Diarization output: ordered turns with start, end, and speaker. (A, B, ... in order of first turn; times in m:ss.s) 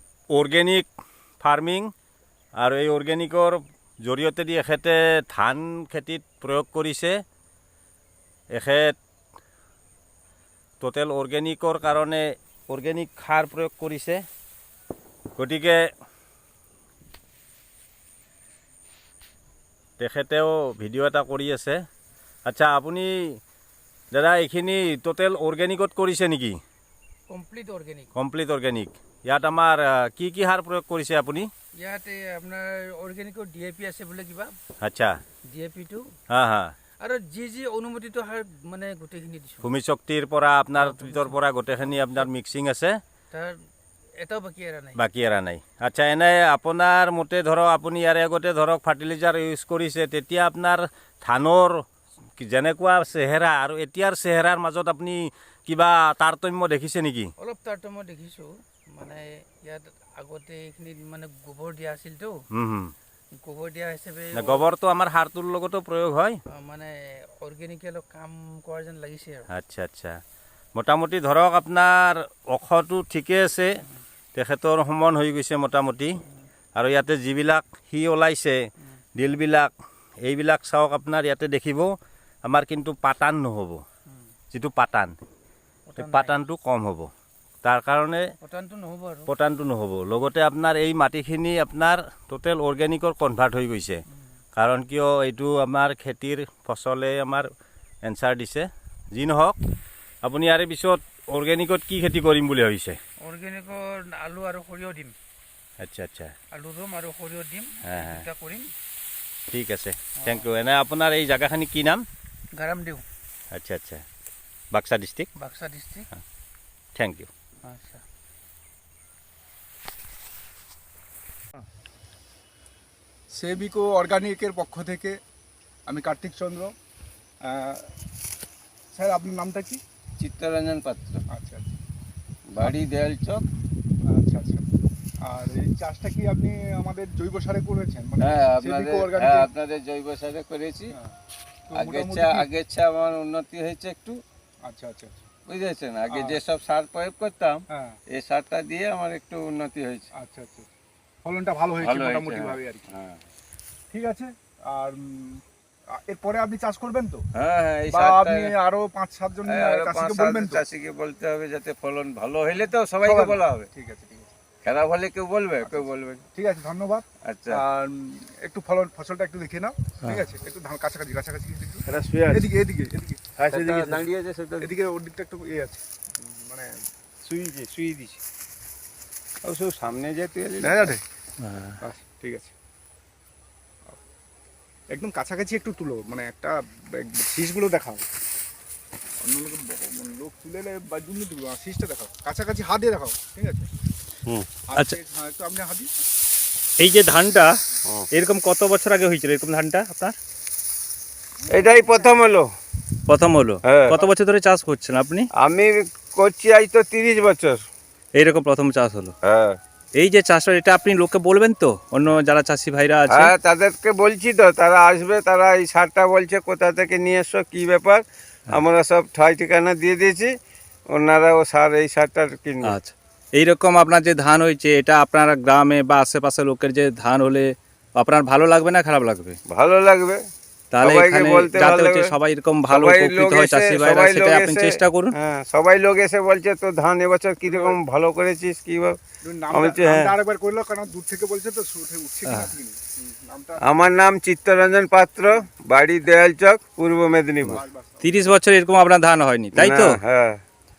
0:00.3-0:00.9 A
0:01.4-0:01.9 A
0:02.6-0:07.2 A
0:08.5-0:09.0 A
0:10.8-0:14.2 A
0:15.4-0:15.8 A
0:20.0-0:21.8 A
0:22.4-0:23.1 A
0:24.1-0:26.6 A
0:27.3-0:28.1 B
0:28.2-0:31.5 A
0:31.8-0:34.5 B
0:34.8-0:35.1 A
0:35.5-0:36.0 B
0:36.3-0:36.7 A
0:37.0-0:39.7 B
0:39.6-0:43.0 A
0:40.8-0:41.4 B
0:43.3-0:43.6 B
0:44.2-0:45.0 B
0:45.0-0:51.8 A
0:52.4-0:57.3 A
0:57.4-1:02.4 B
1:02.5-1:02.9 A
1:03.4-1:04.6 B
1:04.3-1:06.4 A
1:06.5-1:09.5 B
1:09.5-1:10.1 A
1:10.8-1:13.7 A
1:14.3-1:16.1 A
1:16.8-1:18.6 A
1:19.2-1:19.7 A
1:20.2-1:21.9 A
1:22.4-1:23.8 A
1:24.5-1:25.1 A
1:25.9-1:26.4 B
1:26.0-1:27.1 A
1:27.6-1:28.2 A
1:28.4-1:29.3 B
1:29.3-1:34.0 A
1:34.6-1:37.5 A
1:38.0-1:39.6 A
1:40.2-1:43.0 A
1:43.2-1:45.1 B
1:45.8-1:46.3 A
1:46.5-1:48.7 B
1:47.8-1:48.2 A
1:49.5-1:52.0 A
1:52.6-1:53.0 B
1:53.5-1:54.0 A
1:54.7-1:55.3 A
1:55.4-1:56.1 B
1:57.0-1:57.3 A
1:57.6-1:58.0 B
2:03.3-2:05.2 C
2:05.9-2:06.7 C
2:07.4-2:07.9 C
2:08.9-2:09.8 C
2:10.2-2:11.2 D
2:11.3-2:11.7 C
2:12.5-2:13.4 D
2:14.1-2:14.6 C
2:15.2-2:19.5 C
2:18.2-2:20.9 D
2:21.7-2:22.5 C
2:21.7-2:24.2 D
2:24.6-2:25.2 C
2:25.5-2:30.1 D
2:26.1-2:26.4 C
2:27.7-2:28.0 C
2:30.2-2:30.7 C
2:31.2-2:32.9 C
2:31.8-2:33.2 D
2:33.9-2:35.4 C
2:36.0-2:37.2 C
2:37.3-2:38.5 D
2:37.9-2:40.6 C
2:39.4-2:43.7 D
2:43.0-2:44.3 C
2:44.6-2:46.2 D
2:45.6-2:54.1 C
2:47.2-2:47.6 D
2:51.9-2:52.4 D
2:53.4-2:54.7 D
2:54.6-2:56.7 C
2:57.2-2:58.2 D
2:59.4-3:00.9 D
3:00.6-3:01.0 C
3:01.4-3:01.8 E
3:01.8-3:02.5 C
3:04.9-3:08.0 C
3:09.2-3:13.7 C
3:14.7-3:15.9 C
3:16.8-3:17.5 E
3:18.1-3:20.1 E
3:21.5-3:22.5 D
3:23.1-3:25.3 E
3:23.6-3:24.1 D
3:25.4-3:27.6 D
3:28.1-3:29.1 E
3:29.2-3:29.6 D
3:30.0-3:33.3 E
3:33.1-3:40.3 D
3:40.9-3:42.7 D
3:42.6-3:49.4 E
3:49.5-3:50.2 D
3:50.7-3:55.1 E
3:50.8-3:52.1 D
3:52.7-3:59.0 D
3:57.4-3:57.8 C
3:59.2-4:03.6 C
3:59.5-4:00.1 D
4:02.3-4:02.5 E
4:03.6-4:07.6 D
4:07.5-4:08.2 C
4:07.5-4:10.0 E
4:09.5-4:10.4 D